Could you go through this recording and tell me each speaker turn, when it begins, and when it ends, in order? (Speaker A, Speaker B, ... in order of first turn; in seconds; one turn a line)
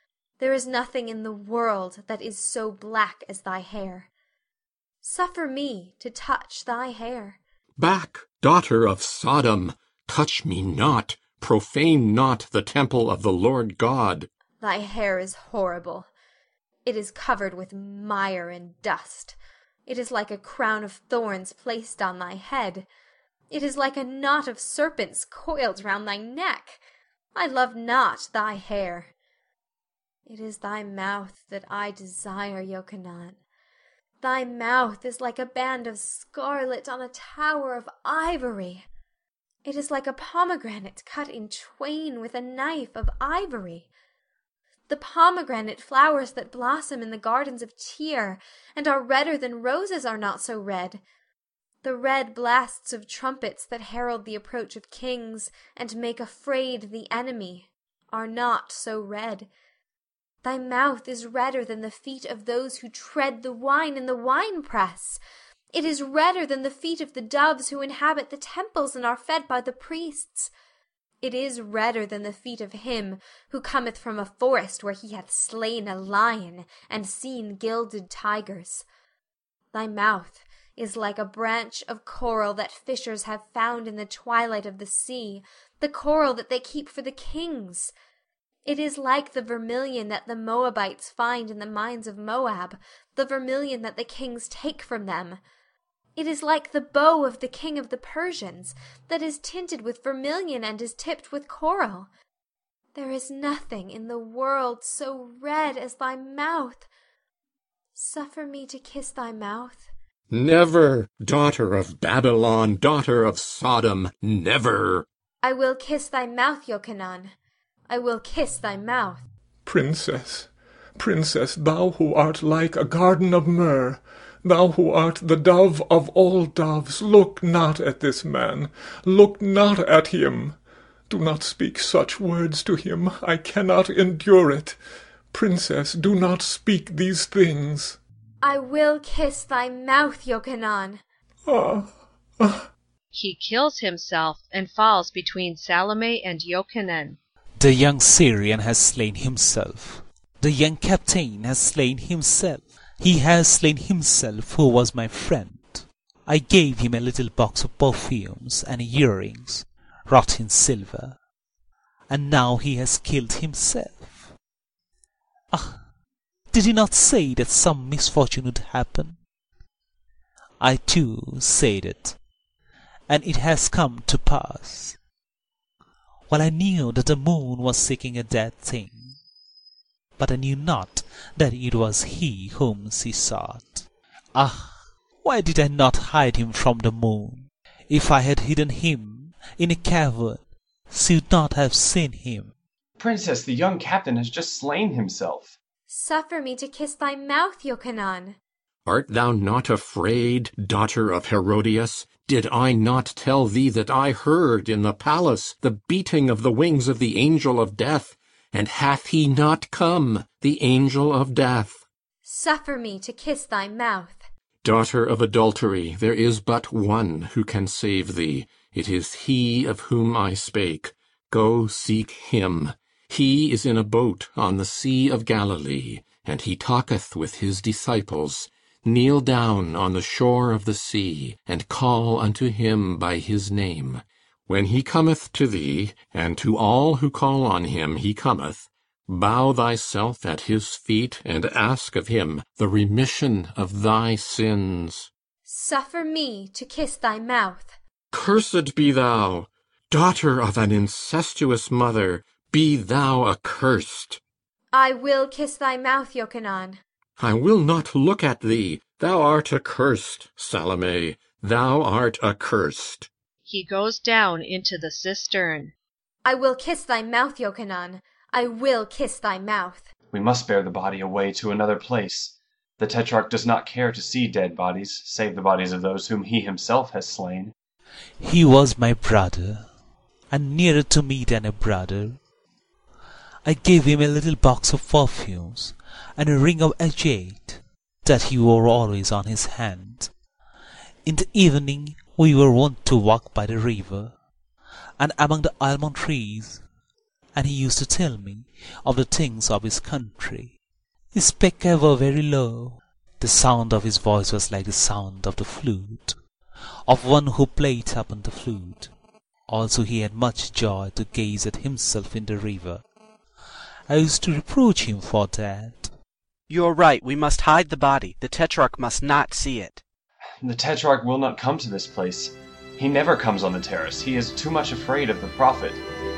Speaker A: 0.4-4.1
Speaker A: 5.0-7.4
Speaker B: 7.8-14.3
Speaker A: 14.6-16.1
Speaker A: 16.9-22.9
Speaker A: 23.5-26.8
Speaker A: 27.4-29.1
Speaker A: 30.3-33.4
Speaker A: 34.2-38.9
Speaker A: 39.6-43.9
Speaker A: 44.9-51.0
Speaker A: 51.8-59.5
Speaker A: 60.4-65.2
Speaker A: 65.7-70.5
Speaker A: 71.2-78.8
Speaker A: 79.7-87.9
Speaker A: 88.6-95.4
Speaker A: 96.2-102.1
Speaker A: 102.9-106.9
Speaker A: 108.0-109.9
Speaker B: 110.3-115.1
Speaker A: 115.4-117.3
Speaker A: 117.9-119.2
Speaker C: 119.6-130.6
Speaker C: 131.1-134.8
Speaker C: 135.3-138.0
Speaker A: 138.4-141.0
Speaker C: 141.5-142.7
Speaker D: 143.1-147.2
Speaker E: 147.6-161.2
Speaker E: 162.1-164.3
Speaker E: 165.5-165.8
Speaker E: 166.5-169.2
Speaker E: 170.6-172.2
Speaker E: 173.1-175.0
Speaker E: 176.3-179.2
Speaker E: 180.2-192.5
Speaker F: 193.0-195.6
Speaker A: 195.9-198.4
Speaker B: 198.9-211.8
Speaker A: 212.2-214.3
Speaker B: 214.6-245.1
Speaker A: 245.5-247.8
Speaker B: 248.1-254.2
Speaker A: 254.7-256.8
Speaker B: 257.2-263.1
Speaker D: 263.5-265.7
Speaker A: 266.2-269.9
Speaker F: 270.1-277.5
Speaker E: 278.2-279.7
Speaker E: 280.3-282.2
Speaker E: 283.4-290.1
Speaker E: 291.1-294.1
Speaker E: 295.0-296.6
Speaker E: 297.4-300.6
Speaker E: 301.1-306.1
Speaker E: 306.9-308.9
Speaker E: 309.5-312.8
Speaker E: 313.9-315.9
Speaker G: 316.5-319.8
Speaker F: 320.4-325.8